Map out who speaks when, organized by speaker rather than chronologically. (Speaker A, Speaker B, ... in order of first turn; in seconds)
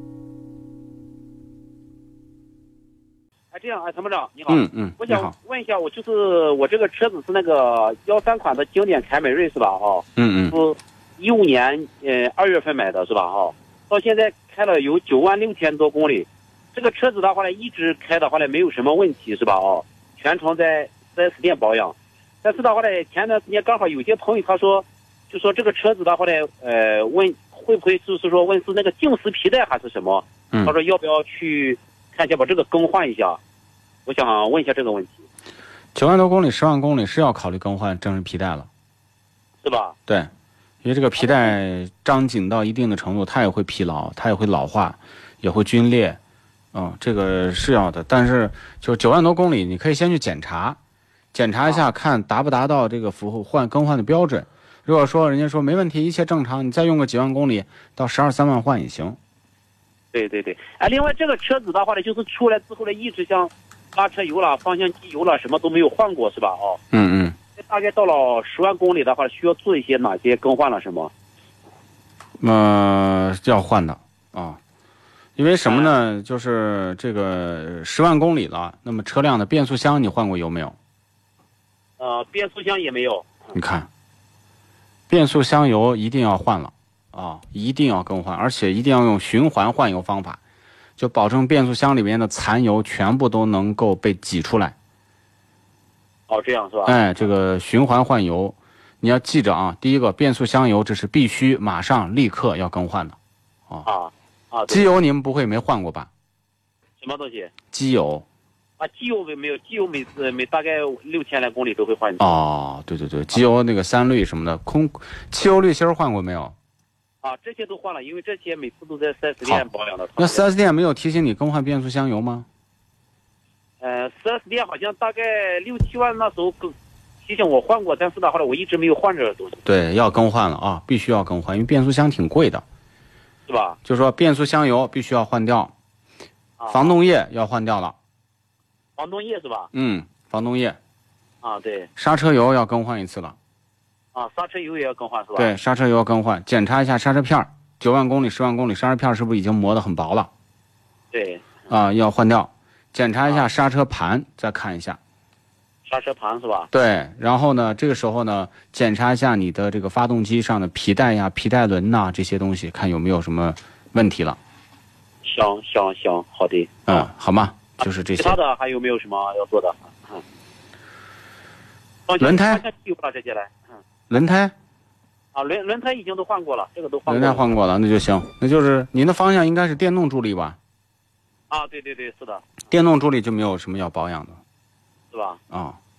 Speaker A: 3.5-33.4, 34.0-35.2, 39.6-40.0, 41.2-41.5, 60.1-66.8, 67.6-71.1, 75.7-75.9, 82.0-83.4, 96.3-97.2, 103.8-105.0, 107.0-107.5, 108.8-112.4, 117.2-120.5, 123.8-129.6, 133.5-133.8, 136.6-137.0, 139.0-139.7, 141.4-141.9, 144.1-145.5, 151.1-151.6, 155.8-156.7, 165.2-167.1, 168.2-170.2, 172.1-173.6, 175.3-177.5, 181.5-182.5, 185.1-185.4
Speaker B: 4.5-5.3, 10.2-10.6, 36.0-38.7, 40.8-46.2, 46.7-50.8, 51.3-59.2, 66.9-67.4, 72.4-74.6, 75.4-80.8, 83.5-83.9, 85.1-90.4, 91.0-94.8, 96.8-103.2, 104.7-106.1, 107.7-108.2, 112.2-116.5, 120.2-122.5, 129.7-132.6, 133.8-135.7, 136.7-137.9, 139.7-140.8, 142.0-143.4, 145.4-150.3, 151.7-155.0, 156.7-164.4, 166.9-168.4, 172.2-172.6, 174.1-174.5, 177.1-180.6, 182.7-184.4, 185.5-185.8